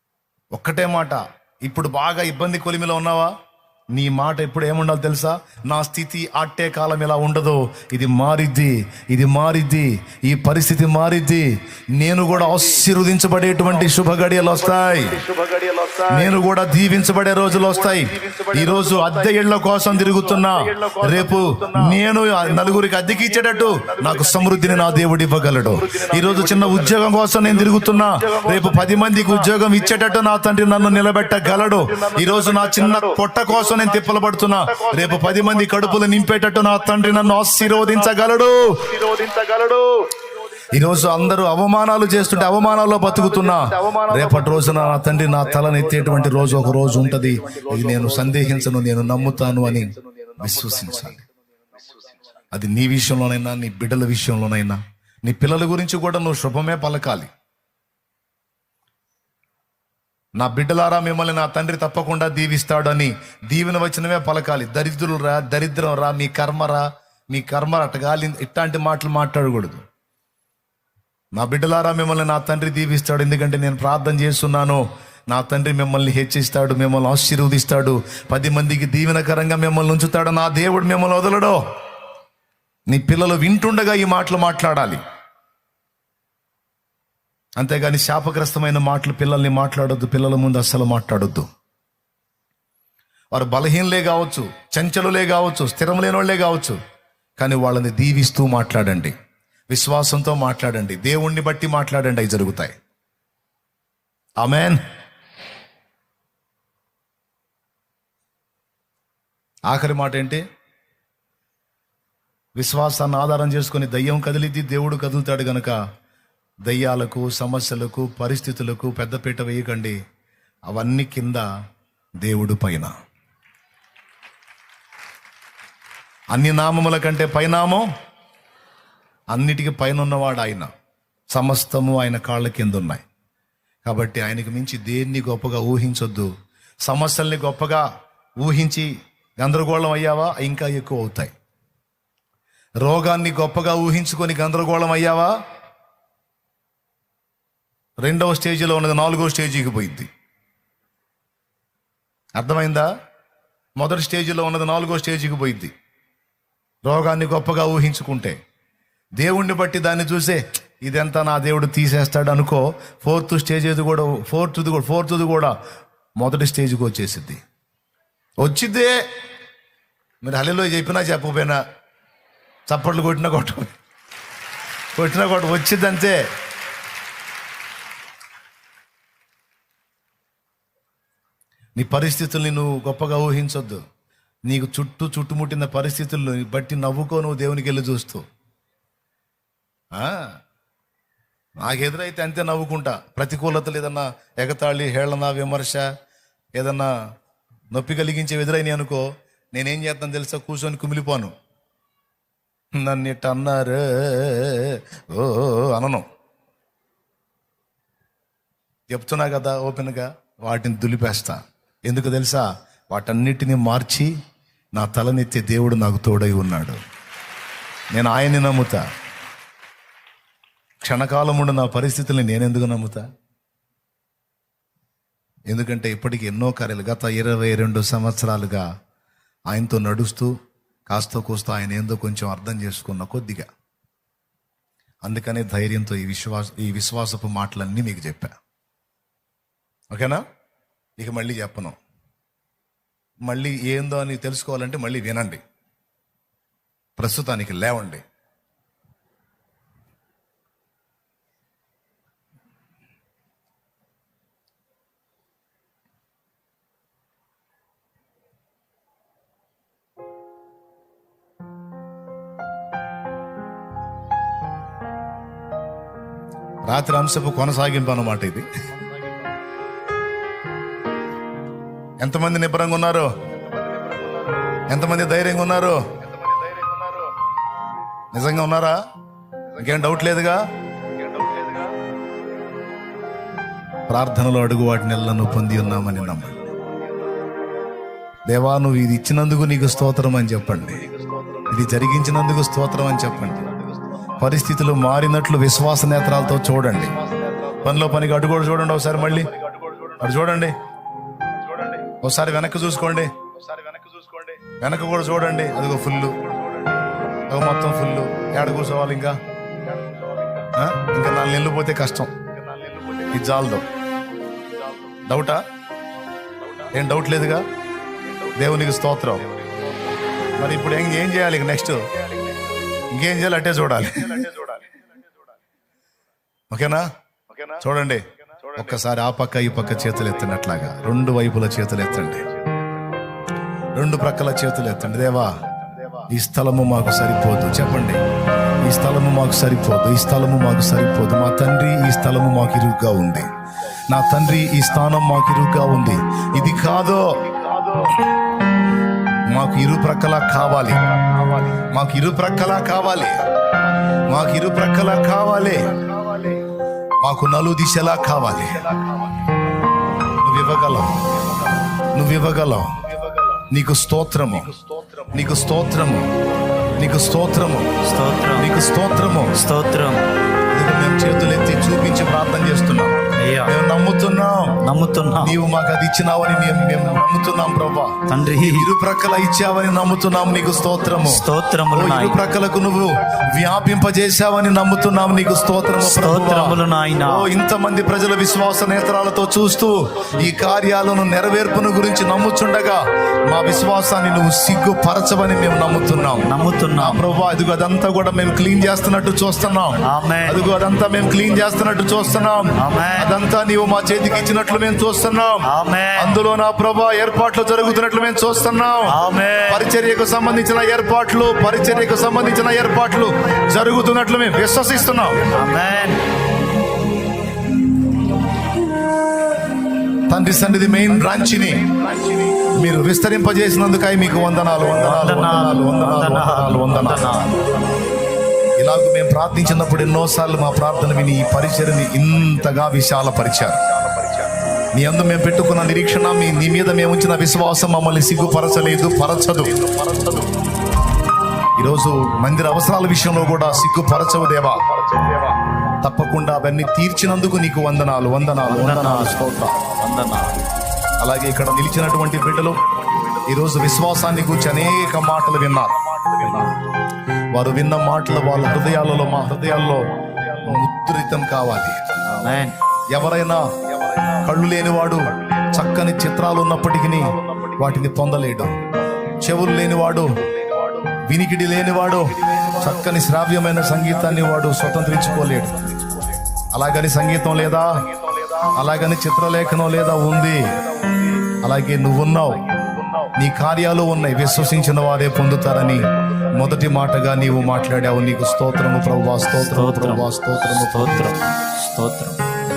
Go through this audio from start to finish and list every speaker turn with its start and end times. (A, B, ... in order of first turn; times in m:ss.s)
0:00.5-0:03.3 A
0:03.9-0:15.2 A
0:12.4-0:12.6 B
0:14.7-0:16.4 B
0:16.1-0:39.0 A
0:17.6-0:41.2 B
0:40.7-0:51.2 A
0:42.1-0:51.1 B
0:51.7-0:52.4 B
0:52.5-0:57.3 A
1:00.4-1:09.8 A
1:11.3-1:21.6 A
1:22.9-1:25.0 A
1:27.6-1:31.5 A
1:33.3-1:36.8 A
1:37.4-1:39.1 A
1:39.7-1:42.8 A
1:44.4-1:44.8 A
1:49.7-1:50.4 A
1:52.6-1:55.8 A
1:56.6-2:00.0 A
2:00.7-2:01.4 A
2:02.2-2:02.9 A
2:06.3-2:07.9 A
2:09.3-2:10.7 A
2:11.3-2:13.0 A
2:13.8-2:16.3 A
2:16.8-2:17.8 A
2:18.4-2:21.3 A
2:22.8-2:25.3 A
2:28.0-2:30.1 A
2:32.4-2:32.9 A
2:33.8-2:35.7 A
2:36.8-2:38.4 A
2:39.2-2:45.6 A
2:46.2-2:47.4 A
2:48.4-2:49.0 A
2:50.2-2:51.6 A
2:52.7-2:53.7 A
2:55.0-2:56.2 A
3:01.8-3:03.8 A
3:04.5-3:08.2 A
3:09.9-3:10.3 A
3:11.6-3:15.9 A
3:16.6-3:16.9 A
3:17.7-3:21.3 A
3:22.7-3:26.1 A
3:28.9-3:34.1 A
3:34.8-3:36.8 A
3:37.9-3:38.8 A
3:40.8-3:43.0 A
3:45.5-3:48.6 A
3:49.5-3:50.3 A
3:50.9-3:53.5 A
3:55.0-3:58.3 A
3:59.9-4:00.2 A
4:01.0-4:01.8 A
4:03.2-4:05.4 A
4:07.0-4:08.0 A
4:26.6-4:28.6 A
4:28.6-4:29.0 B
4:32.0-4:33.1 A
4:33.3-4:34.6 B
4:34.7-4:35.9 A
4:36.0-4:37.1 B
4:38.1-4:38.8 A
4:39.5-4:40.1 B
4:39.6-4:40.4 A
4:41.0-4:41.7 B
4:43.9-4:46.5 A
4:45.3-4:47.3 B
4:48.3-4:50.9 A
4:50.5-4:51.9 B
4:51.5-4:53.4 A
4:53.1-4:54.2 B
4:54.2-4:56.9 A
4:56.5-4:58.0 B
4:57.6-4:59.3 A
4:58.7-5:00.2 B
5:00.0-5:00.6 A
5:01.3-5:02.0 B
5:02.0-5:03.2 A
5:03.2-5:04.4 B
5:04.5-5:06.2 A
5:06.2-5:07.0 B
5:07.3-5:09.2 A
5:09.6-5:10.5 B
5:10.5-5:12.1 A
5:12.1-5:13.2 B
5:13.1-5:13.6 A
5:14.6-5:15.0 B
5:15.0-5:15.4 A
5:16.4-5:16.8 B
5:16.7-5:17.4 A
5:18.0-5:20.0 B
5:18.3-5:19.2 A
5:20.4-5:21.9 A
5:21.8-5:22.6 B
5:22.9-5:24.2 A
5:24.1-5:25.1 B
5:26.5-5:26.8 A
5:27.3-5:27.6 B
5:27.6-5:32.2 A
5:28.3-5:28.6 B
5:29.6-5:31.1 B
5:32.0-5:33.0 B
5:33.8-5:35.4 A
5:34.9-5:35.8 B
5:36.1-5:38.0 A
5:38.6-5:43.3 A
5:43.9-5:47.2 A
5:47.2-5:47.9 B
5:49.3-5:50.9 A
5:50.9-5:51.7 B
5:51.7-5:53.2 A
5:54.1-5:55.7 A
5:55.7-5:56.4 B
5:57.0-5:58.6 A
5:58.0-5:59.3 B
6:00.2-6:01.0 A
6:01.2-6:01.6 B
6:01.9-6:02.8 A
6:02.8-6:03.4 B
6:03.5-6:04.6 A
6:04.5-6:05.3 B
6:05.1-6:06.1 A
6:06.2-6:07.2 B
6:06.8-6:07.8 A
6:07.8-6:08.5 C
6:08.3-6:09.4 A
6:09.3-6:10.0 C
6:10.5-6:14.6 A
6:13.2-6:13.5 C
6:14.6-6:15.4 C
6:15.2-6:55.4 A
6:18.1-6:18.7 C
6:20.4-6:21.0 B
6:21.0-6:22.2 C
6:25.0-6:25.7 B
6:25.8-6:27.3 C
6:35.6-6:36.6 B
6:36.2-6:37.0 C
6:39.8-6:40.4 C
6:40.6-6:42.4 B
6:42.5-6:43.1 C
6:43.9-6:45.0 B
6:45.4-6:46.2 C
6:47.3-6:48.6 B
6:48.9-6:49.7 C
6:51.4-6:52.8 B
6:54.6-6:55.8 B
6:55.3-6:56.0 C
7:00.1-7:01.7 A
7:01.0-7:02.4 B
7:02.6-7:07.3 A
7:04.2-7:04.8 B
7:04.8-7:07.4 C
7:08.6-7:13.6 A
7:09.4-7:12.6 B
7:13.4-7:14.4 B
7:14.7-7:19.5 A
7:17.8-7:20.3 B
7:21.6-7:24.6 A
7:23.6-7:25.4 B
7:25.8-7:29.5 A
7:28.4-7:30.4 C
7:29.3-7:29.8 B
7:31.0-7:32.6 A
7:31.8-7:36.6 B
7:33.3-7:35.8 A
7:36.2-7:36.5 C
7:37.3-7:42.0 A
7:38.9-7:40.6 B
7:42.1-7:42.6 C
7:42.9-7:43.4 A
7:43.7-7:44.3 B
7:44.2-7:48.6 A
7:45.1-7:47.8 B
7:48.4-7:49.4 B
7:49.2-7:50.2 A
7:50.2-7:51.0 B
7:51.0-7:55.7 A
7:52.1-7:53.0 B
7:53.8-7:56.2 B
7:56.5-7:57.8 A
7:57.3-7:58.7 B
7:58.6-8:00.4 A
7:59.4-8:01.3 B
8:01.4-8:02.4 A
8:02.4-8:03.2 B
8:03.2-8:11.1 A
8:04.0-8:09.4 B
8:09.5-8:12.2 C